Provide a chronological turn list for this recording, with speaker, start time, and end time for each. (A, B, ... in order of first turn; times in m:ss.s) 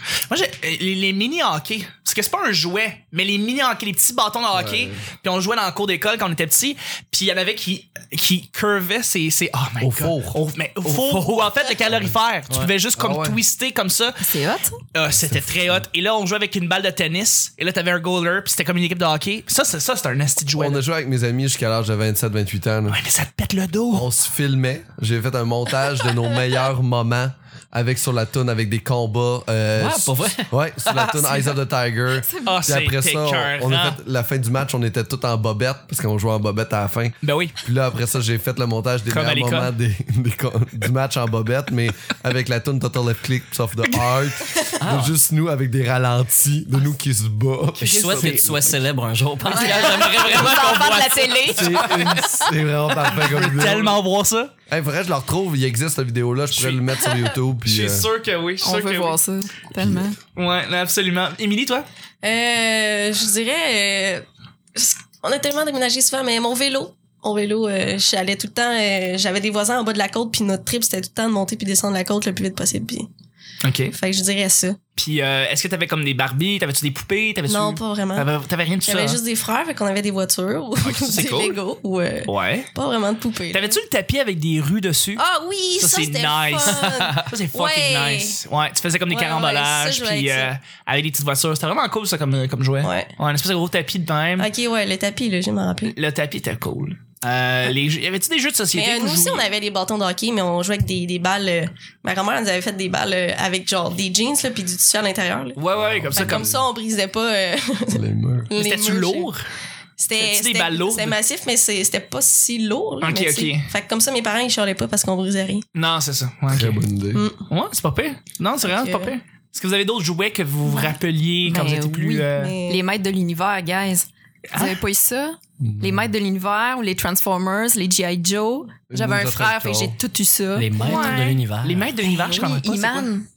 0:00.3-0:14.2 A
0:04.5-0:05.0 B
0:09.8-0:11.3 B
0:12.5-0:13.4 B
0:14.2-0:14.8 C
0:14.9-0:20.8 A
0:20.5-0:23.0 B
0:22.9-0:24.1 A
0:23.9-0:48.7 B
0:29.8-0:31.3 D
0:32.1-0:32.6 C
0:32.4-0:34.0 A
0:37.2-0:37.6 A
0:39.1-0:39.7 A
0:44.8-0:45.1 D
0:47.8-0:51.8 D
0:47.8-0:48.5 A
0:49.4-0:52.3 C
0:49.7-0:52.1 A
0:51.5-0:54.0 B
0:53.1-0:54.5 A
0:54.7-0:58.1 B
0:56.5-0:57.0 A
0:57.6-0:59.2 A
0:58.6-1:00.2 C
0:59.8-1:00.0 B
1:00.4-1:01.8 A
1:02.2-1:04.2 E
1:04.8-1:13.1 E
1:13.6-1:13.9 A
1:13.9-1:14.8 E
1:15.0-1:19.2 A
1:17.5-1:18.3 E
1:18.8-1:23.8 E
1:20.8-1:21.6 A
1:22.2-1:22.7 A
1:23.5-1:25.2 A
1:25.2-1:28.4 E
1:25.8-1:34.5 A
1:29.1-1:30.5 E
1:32.8-1:33.1 E
1:34.4-1:35.9 E
1:35.8-1:39.4 A
1:38.7-1:45.6 E
1:45.6-1:46.5 A
1:45.8-1:46.6 B
1:46.1-1:49.3 E
1:47.9-1:48.5 B
1:48.6-1:49.4 A
1:50.0-1:55.6 E
1:50.2-1:51.2 A
1:53.0-1:53.7 A
1:55.7-1:56.8 A
1:56.5-1:57.2 B
1:57.1-1:57.4 E
1:57.5-2:02.5 A
1:58.6-1:59.1 E
2:00.7-2:11.4 C
2:02.4-2:02.8 E
2:04.5-2:04.8 A
2:05.6-2:06.0 B
2:08.9-2:10.0 B
2:10.6-2:11.9 D
2:10.8-2:13.1 A
2:12.0-2:13.3 C